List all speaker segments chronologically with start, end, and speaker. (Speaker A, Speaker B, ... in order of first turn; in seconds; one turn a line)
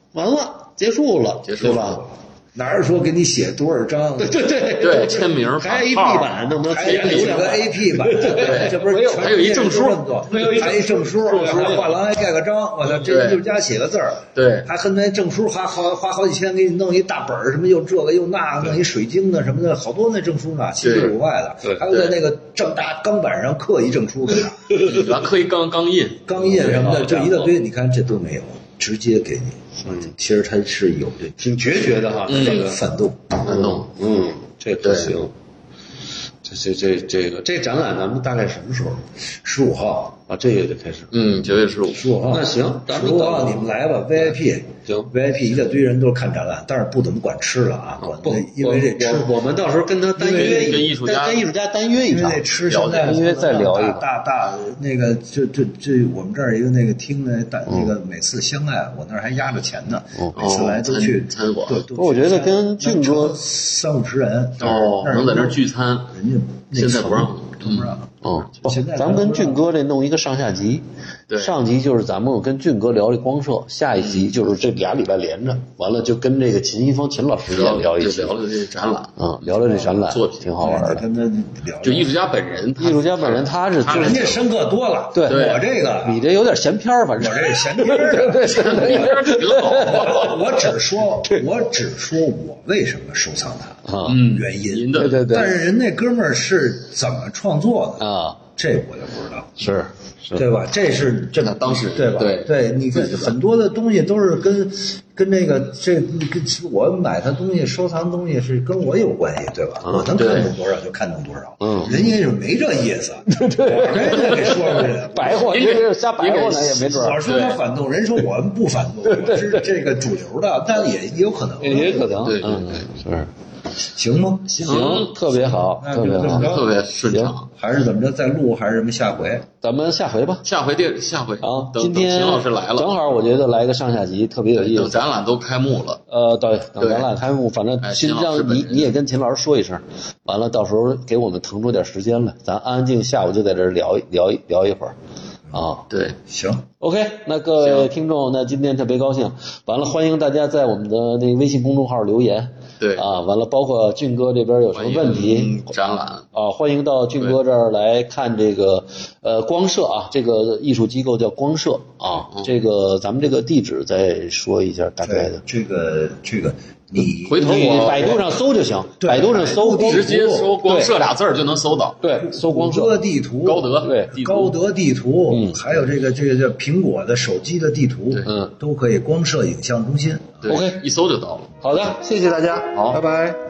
Speaker A: 0.1-2.0
Speaker B: 1.5-2.0
Speaker C: 1.6-4.5
Speaker A: 4.2-9.3
Speaker B: 4.8-7.6
Speaker C: 6.7-24.9
Speaker B: 8.3-10.6
Speaker A: 10.3-11.9
Speaker B: 12.8-13.4
Speaker B: 14.3-14.7
Speaker B: 20.8-21.2
Speaker B: 21.9-22.2
Speaker A: 24.6-25.1
Speaker B: 24.8-27.1
Speaker C: 26.3-33.4
Speaker A: 26.4-27.5
Speaker A: 29.8-30.1
Speaker A: 31.4-32.8
Speaker B: 32.3-32.6
Speaker A: 33.4-35.3
Speaker B: 33.4-33.9
Speaker B: 34.8-35.2
Speaker A: 36.4-39.0
Speaker C: 39.4-40.2
Speaker A: 40.3-41.1
Speaker B: 41.1-42.1
Speaker C: 41.9-49.4
Speaker A: 42.3-43.7
Speaker A: 44.9-45.1
Speaker A: 48.0-54.0
Speaker C: 50.2-50.8
Speaker B: 50.2-51.5
Speaker C: 52.1-69.6
Speaker B: 52.7-53.2
Speaker B: 60.3-61.8
Speaker A: 62.0-63.4
Speaker B: 64.6-66.1
Speaker B: 66.7-68.0
Speaker A: 68.2-78.4
Speaker B: 71.3-71.5
Speaker B: 74.0-74.3
Speaker B: 77.5-80.5
Speaker A: 79.2-81.0
Speaker C: 80.6-82.2
Speaker B: 81.8-84.4
Speaker A: 82.8-84.4
Speaker C: 84.0-86.3
Speaker A: 85.1-85.5
Speaker B: 85.3-85.6
Speaker A: 86.0-90.4
Speaker C: 87.2-99.8
Speaker B: 88.5-90.4
Speaker A: 93.8-94.3
Speaker B: 94.0-95.5
Speaker A: 94.9-95.5
Speaker A: 98.0-98.4
Speaker A: 99.6-100.4
Speaker C: 100.3-122.1
Speaker B: 101.4-102.5
Speaker A: 109.8-110.1
Speaker B: 110.1-110.5
Speaker A: 111.6-112.0
Speaker A: 113.3-117.2
Speaker B: 115.5-116.5
Speaker B: 117.2-117.6
Speaker A: 119.0-119.7
Speaker A: 121.6-123.3
Speaker B: 122.2-122.9
Speaker C: 123.9-126.8
Speaker B: 124.5-125.1
Speaker A: 124.6-127.3
Speaker B: 126.1-127.5
Speaker C: 127.5-129.5
Speaker A: 129.6-130.4
Speaker B: 130.4-132.9
Speaker A: 131.4-135.0
Speaker B: 134.6-136.0
Speaker A: 136.1-144.9
Speaker B: 136.8-137.1
Speaker B: 137.8-138.9
Speaker A: 145.5-145.9
Speaker B: 145.9-146.2
Speaker C: 146.3-146.7
Speaker A: 146.8-155.6
Speaker B: 147.6-147.9
Speaker B: 152.8-153.1
Speaker B: 154.7-156.3
Speaker A: 156.3-165.4
Speaker C: 165.0-168.2
Speaker B: 167.2-168.2
Speaker A: 167.4-170.1
Speaker C: 169.0-170.6
Speaker B: 169.8-172.0
Speaker A: 170.6-171.0
Speaker A: 172.0-173.0
Speaker C: 172.2-180.5
Speaker B: 173.4-174.5
Speaker A: 173.8-174.1
Speaker A: 175.3-175.6
Speaker A: 178.2-178.5
Speaker B: 180.4-181.5
Speaker A: 180.5-180.8
Speaker A: 181.6-183.4
Speaker B: 182.7-183.0